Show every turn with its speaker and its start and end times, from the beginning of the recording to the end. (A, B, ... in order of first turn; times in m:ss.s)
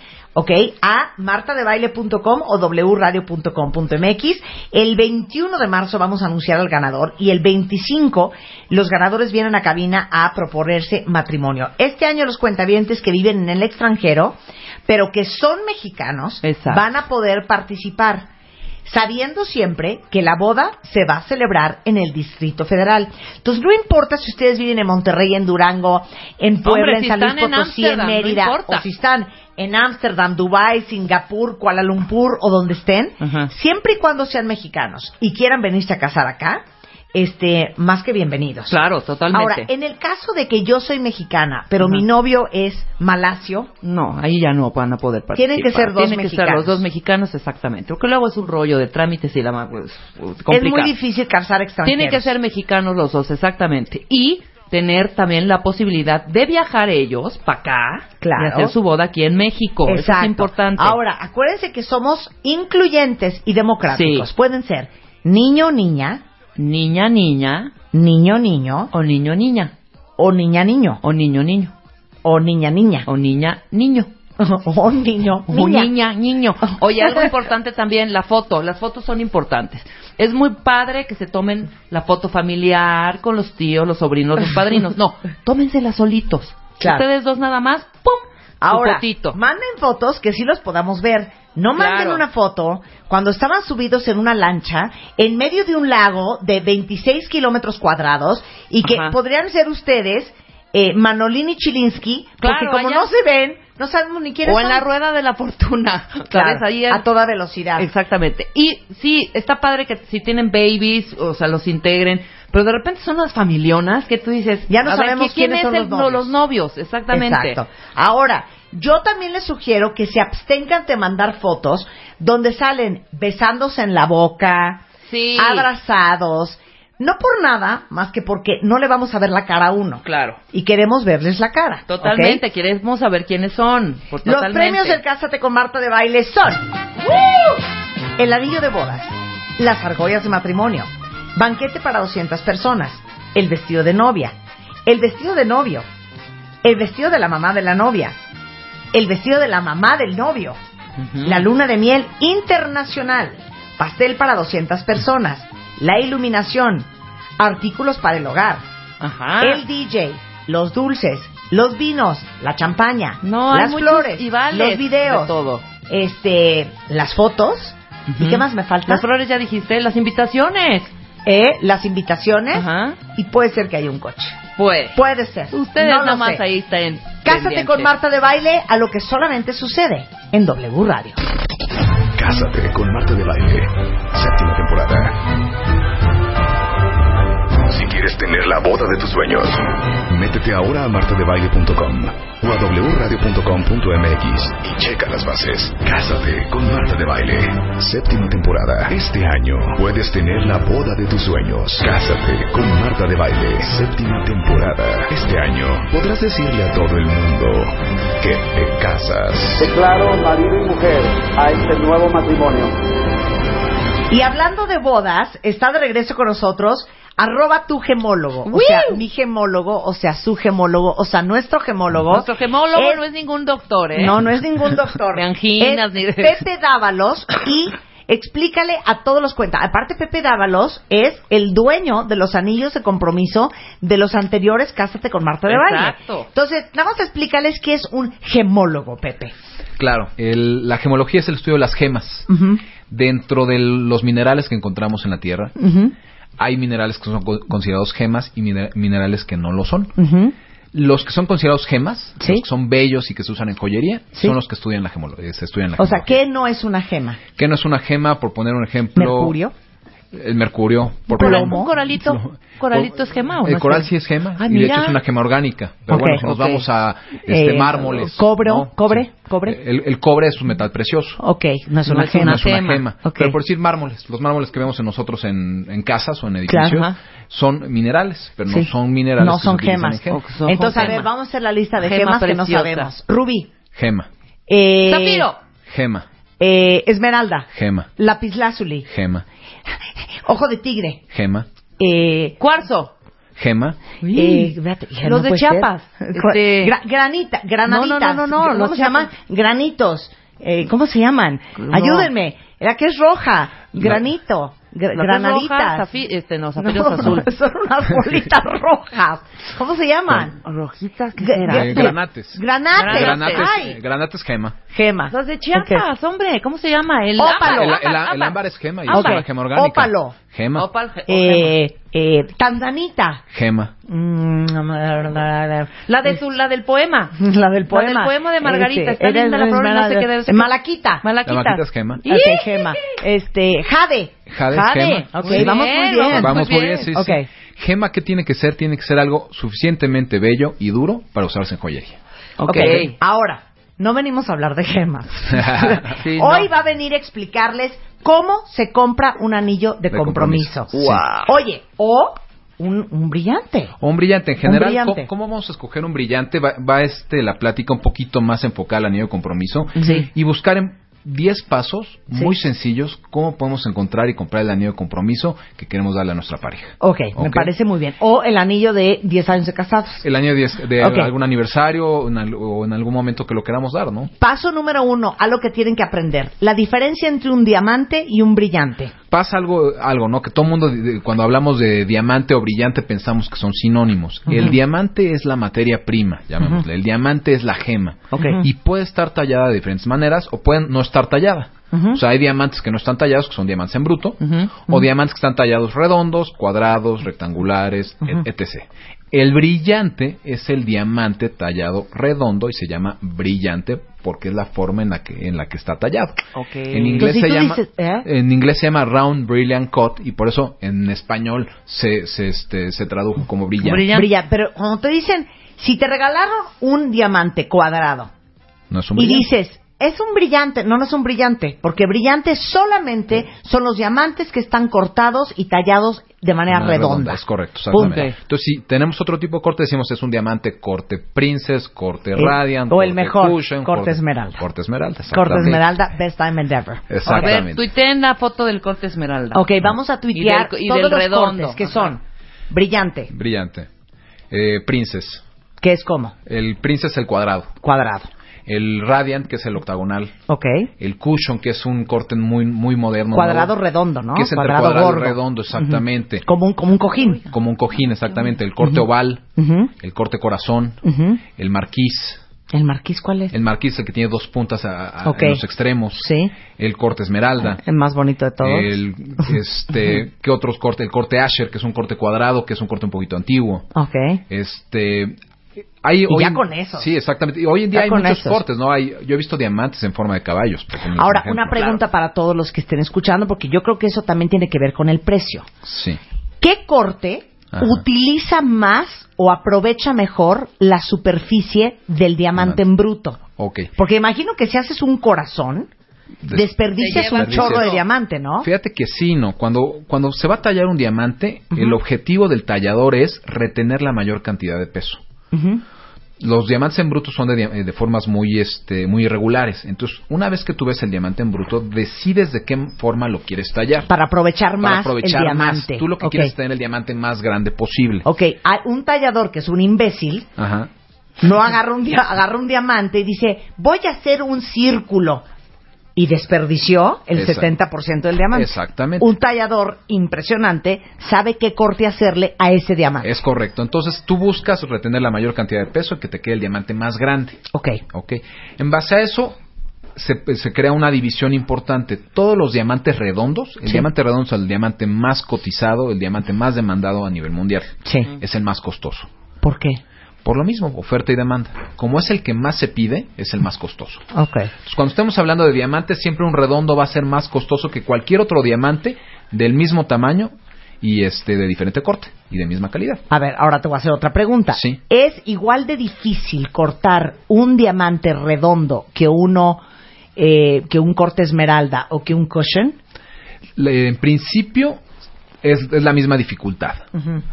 0:00.3-0:18.3 A
0:16.4-0:16.8 B
0:18.8-0:36.6 A
0:26.6-0:28.8 B
0:33.2-0:33.5 B
0:37.1-0:38.8 A
0:38.7-0:39.7 B
0:39.3-0:43.7 A
0:43.8-0:50.9 B
0:45.4-0:46.8 A
0:50.5-0:52.3 A
0:51.8-1:01.0 B
0:58.2-0:58.7 A
0:59.8-1:06.2 A
1:03.9-1:04.3 B
1:06.6-1:07.7 B
1:07.9-1:08.9 A
1:08.9-1:09.7 B
1:10.2-1:11.0 A
1:11.0-1:11.7 B
1:12.2-1:13.1 A
1:13.1-1:14.1 B
1:14.4-1:15.9 A
1:15.5-1:29.4 B
1:16.9-1:17.3 A
1:28.6-1:44.8 A
1:31.7-1:32.2 B
1:38.8-1:39.2 B
1:42.4-1:43.1 B
1:44.4-1:47.0 B
1:46.3-1:47.9 A
1:47.8-1:57.6 B
1:54.7-1:56.3 A
1:57.1-2:04.8 A
2:05.1-2:05.7 B
2:05.4-2:12.4 A
2:10.0-2:10.4 B
2:11.9-2:15.0 B
2:14.2-2:17.3 A
2:18.2-2:24.3 A
2:24.8-2:25.8 A
2:26.6-2:28.2 A
2:28.9-2:30.6 A
2:31.0-2:31.4 B
2:31.2-2:36.9 A
2:37.4-2:38.6 A
2:39.0-2:39.6 B
2:39.4-2:45.3 A
2:43.2-2:45.6 B
2:45.9-2:49.0 A
2:48.1-2:50.9 B
2:51.2-2:54.4 A
2:52.5-2:53.0 B
2:54.6-2:55.0 B
2:54.9-2:56.4 A
2:55.5-2:57.9 B
2:57.2-3:01.2 A
3:02.1-3:05.2 C
3:07.6-3:29.6 C
3:29.6-3:32.7 D
3:34.1-3:43.0 A
3:38.5-3:39.0 B
3:42.1-3:44.2 B
3:43.9-3:59.3 A
3:45.1-3:46.4 B
3:55.5-3:56.3 B
3:59.8-4:02.3 E
4:02.3-4:02.6 A
4:02.9-4:05.5 E
4:05.6-4:05.9 A
4:06.4-4:10.0 E
4:10.0-4:10.3 A
4:10.7-4:16.2 E
4:12.2-4:12.4 A
4:15.8-4:17.2 A
4:17.4-4:19.4 E
4:19.0-4:19.5 A
4:20.1-4:31.2 E
4:21.1-4:21.7 A
4:21.1-4:25.0 B
4:25.9-4:26.6 A
4:27.2-4:29.6 A
4:31.2-4:32.4 A
4:31.8-4:32.8 B
4:32.0-4:40.2 E
4:33.0-4:33.4 A
4:36.5-4:36.8 A
4:38.5-4:43.5 A
4:40.1-4:41.1 B
4:41.8-4:42.9 B
4:43.7-4:44.1 E
4:44.5-4:45.3 A
4:44.8-4:45.4 B
4:45.7-4:46.0 E
4:46.4-4:48.9 A
4:47.5-4:47.9 E
4:48.9-4:49.2 E
4:50.2-4:51.0 A
4:51.1-4:51.5 E
4:51.8-4:52.4 A
4:52.4-4:52.9 B
4:53.4-4:53.8 E
4:54.0-4:56.7 B
4:54.1-5:05.8 A
4:57.7-4:59.1 B
5:01.6-5:02.1 B
5:04.9-5:07.3 B
5:06.6-5:10.4 A
5:10.4-5:12.0 B
5:11.2-5:13.8 A
5:11.5-5:14.6 E
5:12.7-5:13.6 B
5:14.7-5:15.8 A
5:15.1-5:19.2 B
5:17.2-5:17.8 A
5:17.4-5:20.7 E
5:18.9-5:20.2 A
5:20.6-5:21.5 B
5:21.1-5:23.2 A
5:23.3-5:23.7 E
5:23.9-5:26.2 A
5:25.9-5:27.1 B
5:27.1-5:31.0 A
5:27.7-5:32.9 B
5:31.2-5:32.0 E
5:32.0-5:36.4 A
5:34.3-5:35.6 E
5:34.7-5:36.9 B
5:36.1-5:42.0 E
5:36.9-5:37.3 A
5:42.4-5:42.9 B
5:42.4-5:53.7 A
5:45.3-5:45.8 E
5:46.0-5:46.5 B
5:49.9-5:51.0 E
5:50.7-5:51.3 B
5:53.8-6:07.5 E
5:54.4-5:55.1 A
6:06.8-6:10.0 A
6:10.0-6:14.1 E
6:10.8-6:11.1 A
6:14.2-6:18.9 A
6:19.1-6:53.9 E
6:24.3-6:24.5 A
6:28.1-6:28.4 B
6:28.1-6:28.4 A
6:31.7-6:32.0 A
6:34.2-6:34.6 B
6:46.3-6:47.1 B
6:47.0-6:48.1 A
6:53.6-6:54.1 B
6:53.9-6:58.1 A
6:58.7-6:59.3 E
6:59.0-7:07.2 A
7:06.5-7:15.7 E
7:07.7-7:08.0 A
7:07.8-7:08.1 B
7:12.2-7:14.4 A
7:15.1-7:17.3 A
7:16.9-7:17.6 E
7:17.0-7:19.5 B
7:19.3-7:23.1 A
7:20.1-7:21.9 B
7:23.1-7:23.7 E
7:24.3-7:25.2 E
7:25.6-7:26.1 A
7:26.3-7:27.5 E
7:27.6-7:28.1 A
7:28.4-7:30.1 E
7:30.3-7:30.7 A
7:30.8-7:33.5 E
7:33.1-7:37.2 A
7:34.1-7:36.2 E
7:37.2-7:39.2 E
7:39.4-7:39.7 A
7:39.8-7:40.8 E
7:40.8-7:41.2 A
7:41.3-7:42.2 E
7:42.5-7:43.3 A
7:43.3-7:47.6 E
7:45.0-7:45.4 A
7:45.9-7:46.3 A
7:47.4-7:48.7 A
7:48.4-7:53.7 E
7:53.7-7:54.2 A
7:54.3-7:55.2 E
7:55.8-8:01.8 E
7:56.1-7:56.9 A
7:57.7-7:58.4 A
8:01.0-8:05.5 A
8:05.6-8:06.0 E
8:06.4-8:13.2 A
8:07.5-8:07.8 E
8:12.4-8:12.6 E
8:13.4-8:13.7 E
8:13.8-8:15.7 A
8:16.2-8:17.8 E
8:16.3-8:18.5 A
8:16.8-8:17.8 B
8:18.4-8:25.0 E
8:25.3-8:25.6 A
8:26.2-8:33.9 E
8:33.9-8:36.3 A
8:34.6-8:38.1 E
8:38.0-8:40.3 A
8:40.4-8:40.7 E
8:41.2-8:45.2 A
8:46.0-8:53.1 A
8:47.1-8:47.5 E
8:48.3-8:49.1 E
8:53.0-8:59.4 E
8:57.5-8:57.8 A
8:59.9-9:09.1 E
9:07.8-9:08.1 A
9:09.4-9:09.8 A
9:10.2-9:14.0 E
9:14.1-9:14.5 A
9:14.6-9:23.0 E
9:23.1-9:29.6 A
9:24.5-9:24.8 E
9:30.2-9:32.8 A
9:33.6-9:34.8 E
9:35.4-9:36.9 E
9:36.9-9:37.2 A